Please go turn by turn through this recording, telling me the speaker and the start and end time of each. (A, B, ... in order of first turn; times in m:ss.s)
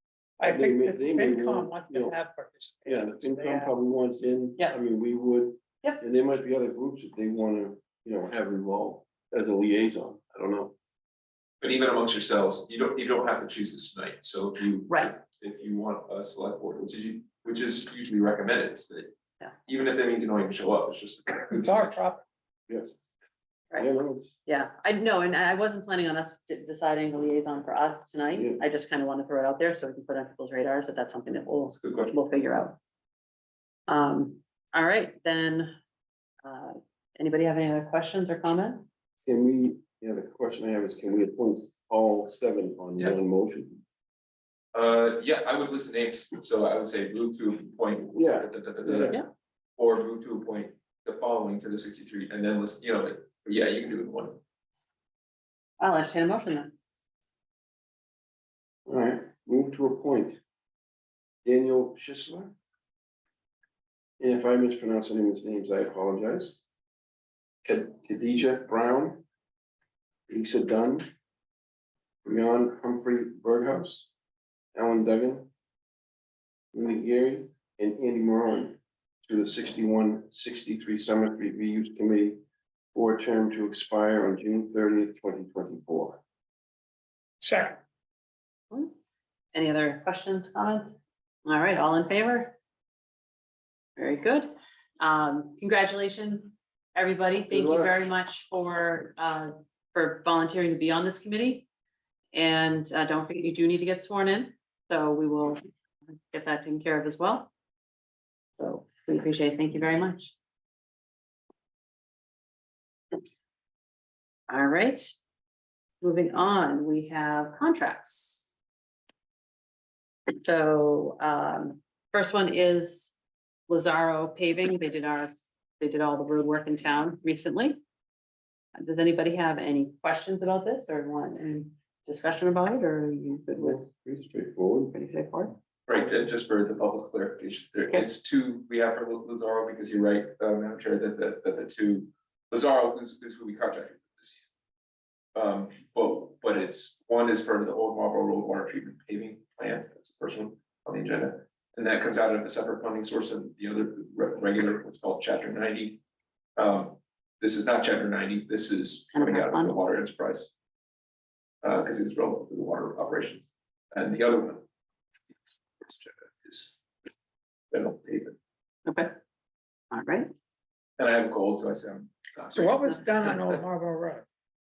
0:00.4-0:03.7 A
0:00.4-0:02.1 B
0:02.8-0:10.7 B
0:11.6-0:19.1 C
0:14.9-0:15.1 D
0:19.6-0:21.9 C
0:21.5-0:22.2 A
0:22.7-0:22.9 B
0:23.8-0:24.3 B
0:24.4-0:32.8 D
0:28.3-0:28.6 B
0:31.8-0:32.2 C
0:33.9-0:35.7 D
0:36.4-0:38.8 D
0:39.2-0:43.8 B
0:44.7-0:49.2 C
0:48.2-0:49.2 B
0:49.8-0:54.4 C
0:55.8-0:56.7 D
0:58.8-1:00.4 B
1:01.4-1:02.5 B
1:04.2-1:06.6 B
1:07.6-1:09.2 B
1:10.3-1:11.1 B
1:12.2-1:14.1 B
1:14.7-1:15.5 B
1:16.7-1:22.4 B
1:22.9-1:26.2 B
1:27.4-1:27.8 A
1:29.5-1:32.5 D
1:34.0-1:41.6 D
1:37.5-1:38.0 B
1:42.3-1:45.6 D
1:46.3-1:47.5 D
1:48.6-1:50.3 D
1:54.5-1:55.2 D
1:56.0-1:58.5 D
2:00.4-2:03.1 D
2:03.7-2:07.8 D
2:08.8-2:13.9 D
2:13.6-2:14.9 B
2:14.9-2:15.5 D
2:15.9-2:24.5 C
2:25.3-2:36.0 C
2:36.6-2:40.5 C
2:39.1-2:39.8 D
2:41.6-2:44.6 C
2:45.8-2:46.8 C
2:47.7-2:48.4 C
2:48.8-2:49.1 D
2:49.9-2:50.3 D
2:51.0-2:53.6 C
2:52.5-2:54.2 A